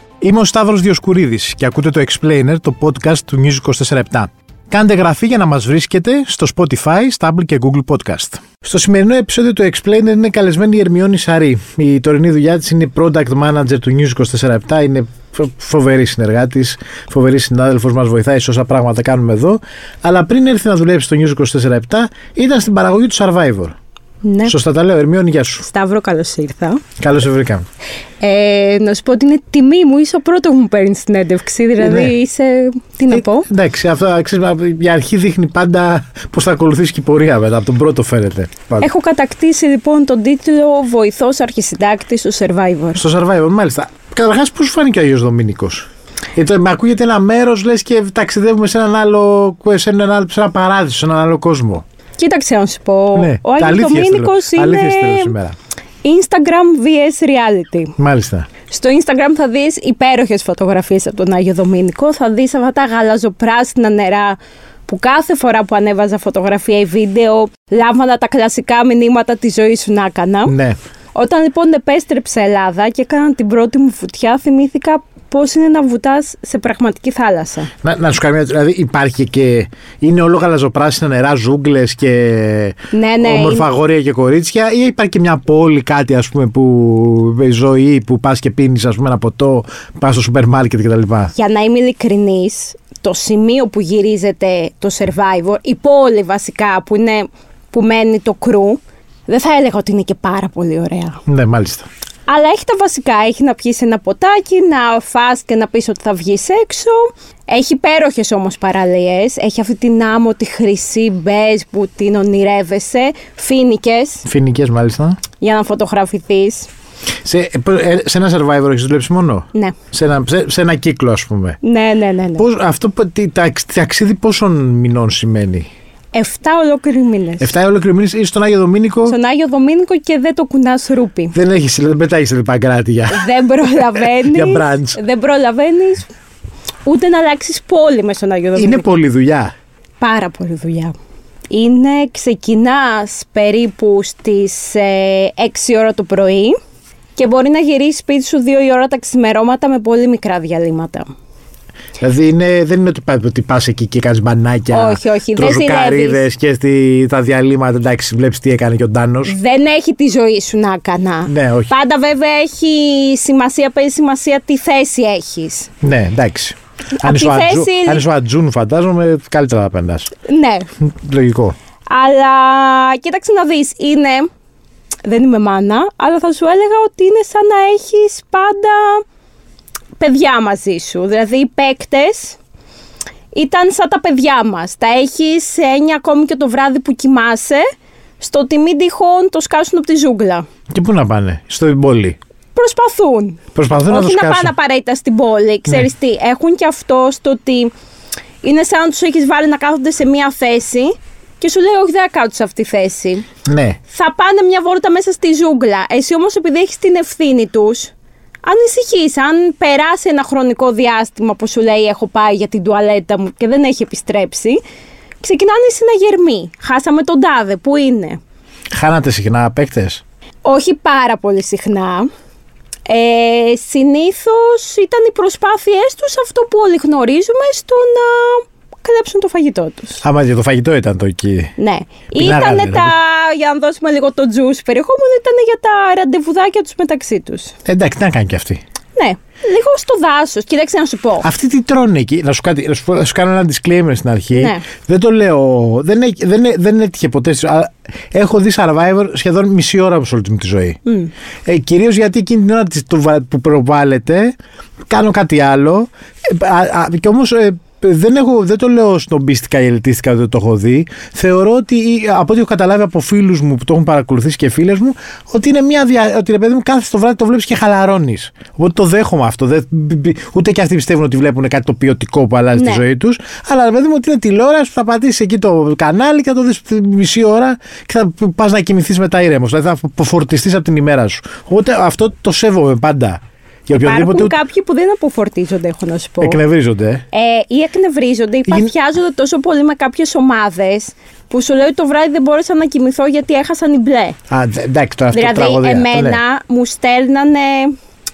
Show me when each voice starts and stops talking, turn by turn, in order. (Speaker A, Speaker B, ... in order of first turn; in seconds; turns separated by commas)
Speaker A: 0.2-23.8, Speaker B: 24.2-24.6, Speaker A: 24.5-25.7, Speaker B: 25.6-26.8, Speaker A: 27.0-27.6, Speaker B: 28.2-33.5, Speaker A: 31.8-32.1, Speaker A: 33.1-38.9, Speaker B: 38.8-43.0, Speaker A: 43.0-51.8, Speaker B: 52.2-55.4, Speaker A: 53.1-55.5, Speaker B: 56.0-57.9, Speaker A: 58.0-58.5, Speaker B: 58.7-70.5, Speaker A: 70.5-70.8, Speaker B: 71.1-77.7, Speaker A: 77.8-91.3, Speaker B: 82.9-83.7, Speaker B: 91.3-101.2, Speaker A: 101.3-101.9, Speaker B: 102.3-114.3, Speaker A: 114.3-115.2, Speaker B: 115.4-116.7, Speaker A: 117.2-121.6, Speaker B: 121.6-122.5, Speaker A: 122.4-125.7, Speaker B: 126.1-127.5, Speaker A: 127.4-129.2, Speaker B: 129.1-131.3, Speaker A: 131.3-133.3, Speaker B: 133.1-136.1, Speaker A: 133.9-135.0, Speaker B: 136.8-138.9, Speaker A: 138.6-139.5, Speaker B: 140.0-140.9, Speaker B: 141.5-146.6, Speaker B: 147.2-151.1, Speaker A: 152.0-159.4, Speaker B: 154.7-156.2, Speaker B: 159.2-165.7, Speaker A: 161.3-161.7, Speaker A: 165.8-170.1, Speaker B: 167.0-168.1, Speaker B: 170.2-170.7, Speaker A: 170.8-171.6, Speaker B: 171.9-174.3, Speaker B: 175.1-179.0, Speaker B: 180.0-182.4, Speaker B: 183.3-187.6, Speaker B: 188.2-190.4, Speaker A: 190.7-192.2, Speaker B: 192.6-197.7, Speaker A: 193.6-194.5, Speaker B: 198.4-203.2, Speaker A: 203.5-203.8, Speaker B: 203.9-207.9, Speaker B: 208.4-214.6, Speaker B: 215.2-218.2, Speaker A: 218.7-220.0, Speaker B: 220.4-222.1, Speaker B: 222.9-230.0, Speaker A: 230.0-231.5, Speaker B: 231.6-237.5, Speaker A: 232.1-232.9, Speaker A: 237.7-238.6, Speaker B: 239.0-241.3, Speaker A: 241.2-250.8, Speaker B: 244.3-244.7, Speaker B: 250.9-251.1, Speaker A: 251.5-254.4, Speaker A: 254.9-284.4, Speaker B: 272.6-272.8, Speaker B: 283.7-286.4, Speaker A: 286.2-287.0, Speaker B: 287.1-294.2, Speaker A: 294.3-296.2, Speaker B: 295.1-297.7